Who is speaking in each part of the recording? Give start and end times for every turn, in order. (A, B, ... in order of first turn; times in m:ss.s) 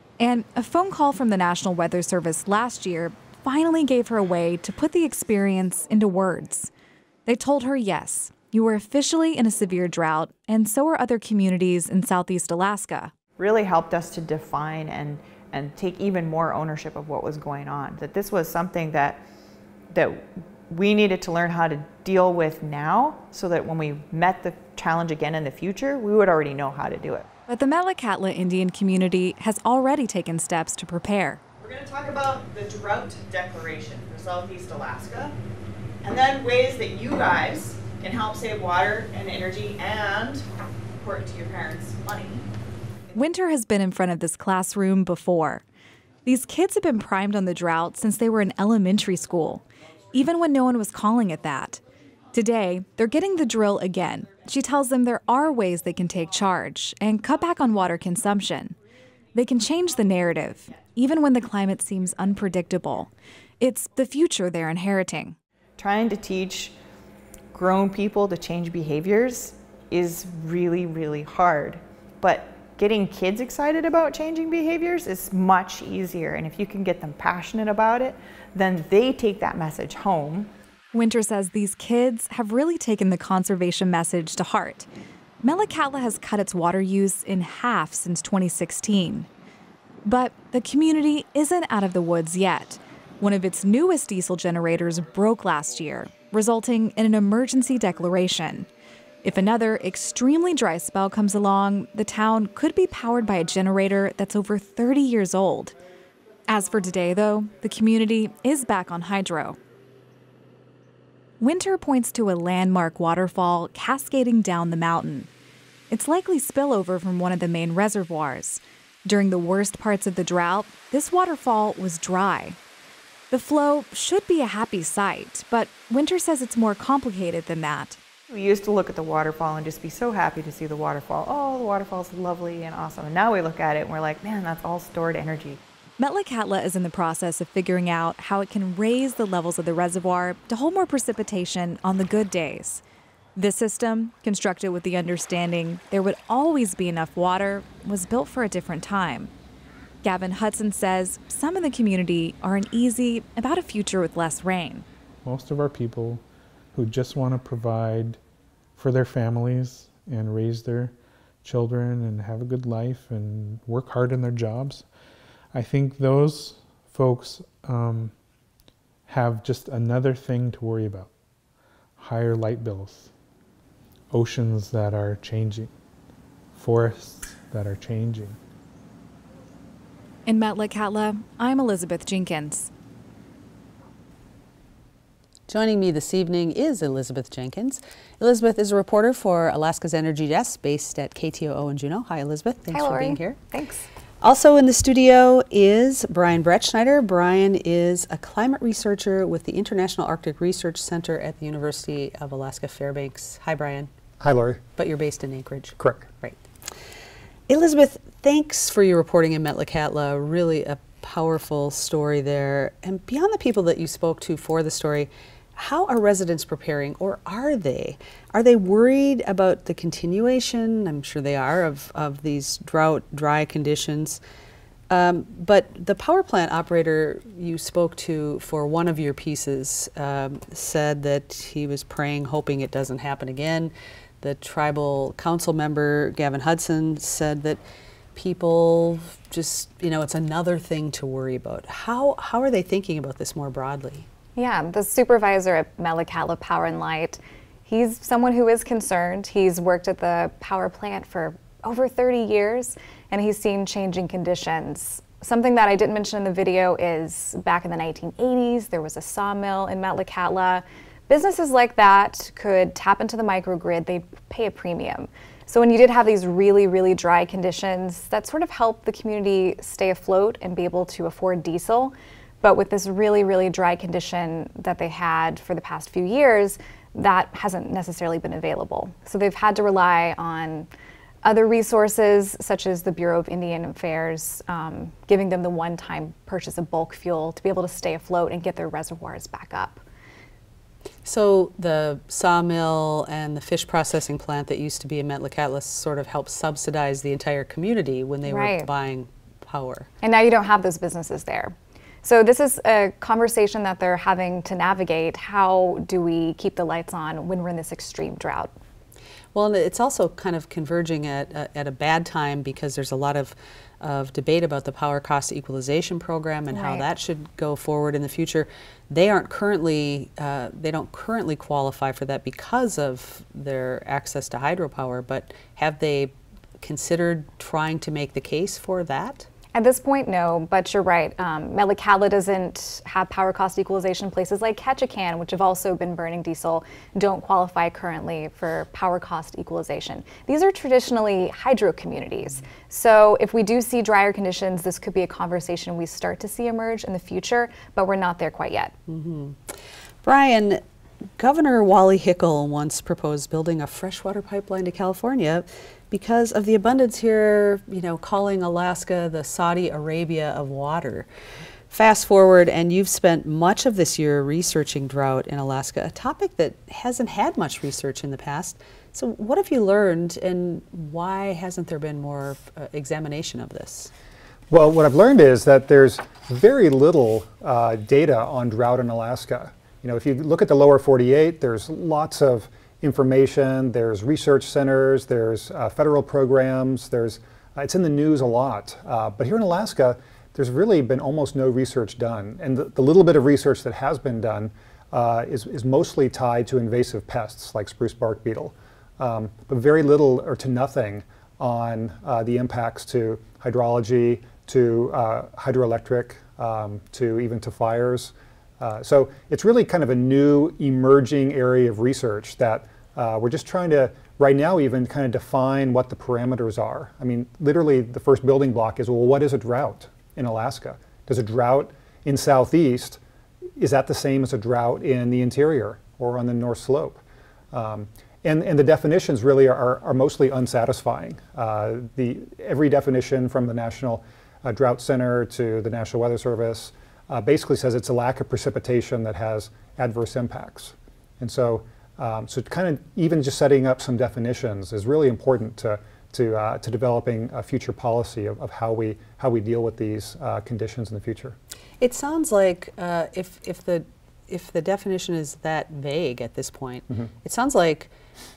0:00.2-0:06.6 A
0:05.4-0:06.6 B
0:07.3-0:13.0 A
0:08.3-0:10.3 B
0:13.4-0:19.2 C
0:19.9-0:27.3 C
0:27.5-0:31.4 A
0:31.6-0:35.3 C
0:36.0-0:40.4 C
0:41.0-0:42.4 C
0:43.2-0:45.6 A
0:46.2-0:49.6 A
0:50.2-0:51.8 A
0:52.3-0:58.7 A
0:54.7-0:55.4 B
0:59.4-1:03.1 A
1:02.6-1:03.0 B
1:03.6-1:05.2 A
1:03.9-1:05.3 B
1:05.8-1:06.8 C
1:07.5-1:20.5 C
1:21.0-1:24.7 A
1:21.1-1:24.8 B
1:25.5-1:29.2 A
1:27.8-1:28.2 B
1:30.1-1:38.6 A
1:31.9-1:32.2 B
1:34.7-1:35.0 B
1:35.7-1:36.3 B
1:39.2-1:45.7 A
1:45.4-1:45.7 B
1:46.5-1:49.5 A
1:51.4-1:55.2 A
1:51.5-1:55.2 B
1:55.9-1:58.6 B
1:56.0-1:58.5 A
1:59.1-2:02.4 A
1:59.3-2:02.5 B
2:03.3-2:07.9 A
2:03.7-2:05.8 B
2:07.3-2:07.9 B
2:08.3-2:15.6 C
2:16.1-2:22.7 A
2:16.1-2:22.6 B
2:23.4-2:29.2 A
2:23.6-2:29.3 B
2:30.1-2:34.8 B
2:30.2-2:34.7 A
2:35.2-2:38.2 D
2:38.8-2:44.9 D
2:45.5-2:48.1 D
2:49.1-2:51.1 D
2:52.0-2:53.1 D
2:54.1-2:55.7 D
2:56.5-2:58.4 D
3:00.3-3:02.7 B
3:00.6-3:02.4 A
3:05.5-3:13.4 E
3:12.7-3:13.9 B
3:14.2-3:23.9 E
3:24.2-3:24.6 F
3:24.8-3:26.4 E
3:25.8-3:26.1 F
3:27.5-3:44.2 E
3:44.9-3:57.6 E
3:58.1-4:04.1 E
4:04.4-4:40.7 B
4:41.2-4:49.8 B
4:51.0-4:59.9 E
4:58.2-4:58.7 B
5:00.0-5:08.5 B
5:09.3-5:29.3 E
5:16.5-5:16.8 B
5:29.5-5:48.7 B
5:48.9-5:50.6 E
5:51.2-6:01.1 E
6:01.7-6:13.9 E
6:14.5-7:03.0 F
7:03.6-7:07.0 F
7:07.5-7:31.4 F
7:31.8-7:37.9 E